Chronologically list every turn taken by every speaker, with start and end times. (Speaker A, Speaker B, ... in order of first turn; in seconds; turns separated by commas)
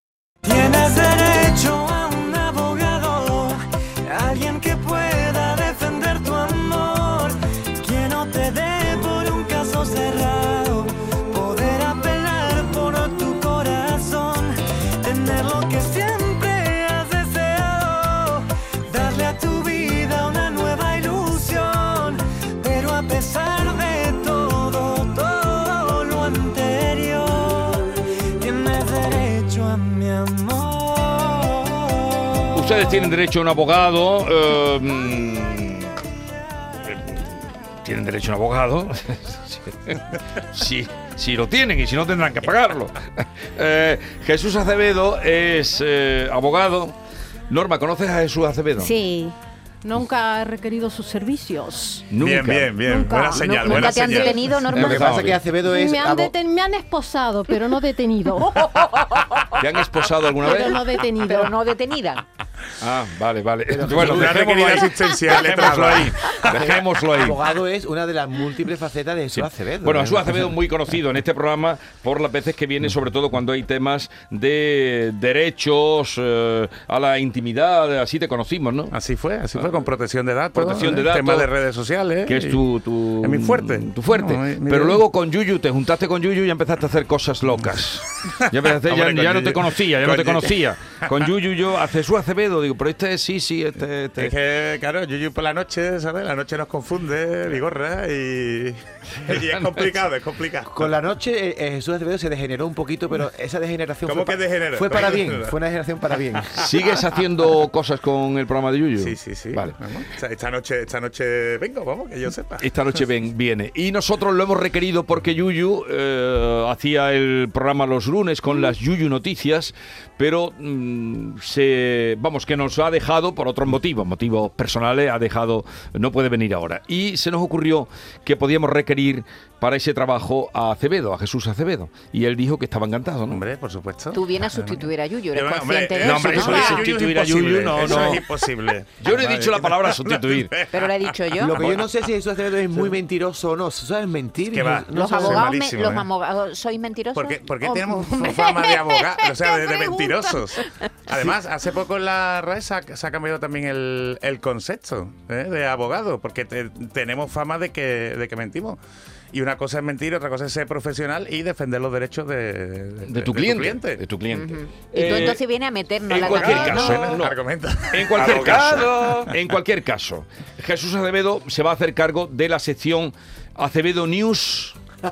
Speaker A: 0.4-32.8, Speaker B: 32.5-36.0, Speaker B: 36.9-47.0, Speaker B: 47.5-48.9, Speaker C: 48.8-52.1, Speaker B: 52.1-52.8, Speaker D: 52.2-54.4, Speaker C: 52.8-54.6, Speaker E: 53.3-55.3, Speaker B: 54.7-55.4, Speaker F: 54.7-56.3, Speaker C: 55.6-59.2, Speaker B: 59.6-60.8, Speaker C: 60.4-61.5, Speaker E: 61.2-62.2, Speaker B: 62.8-67.4, Speaker F: 63.7-64.6, Speaker D: 64.0-66.5, Speaker F: 66.5-70.5, Speaker B: 69.3-79.0, Speaker D: 78.9-82.6, Speaker B: 80.5-81.5, Speaker B: 82.2-94.3, Speaker D: 83.2-85.0, Speaker D: 88.9-90.5, Speaker D: 94.2-100.8, Speaker B: 99.3-99.9, Speaker F: 100.7-106.8, Speaker D: 104.0-105.5, Speaker B: 106.6-109.8, Speaker D: 109.0-112.8, Speaker B: 112.6-133.4, Speaker D: 133.3-140.9, Speaker E: 134.1-136.8, Speaker B: 136.0-138.5, Speaker C: 136.4-136.9, Speaker B: 139.0-140.7, Speaker E: 140.7-141.6, Speaker F: 141.4-145.5, Speaker B: 141.5-141.8, Speaker D: 144.5-146.1, Speaker E: 144.9-147.6, Speaker D: 147.1-158.8, Speaker C: 147.7-150.4, Speaker D: 159.3-164.0, Speaker B: 163.1-165.4, Speaker E: 164.3-167.2, Speaker B: 166.1-167.4, Speaker D: 166.2-169.2, Speaker B: 167.9-174.8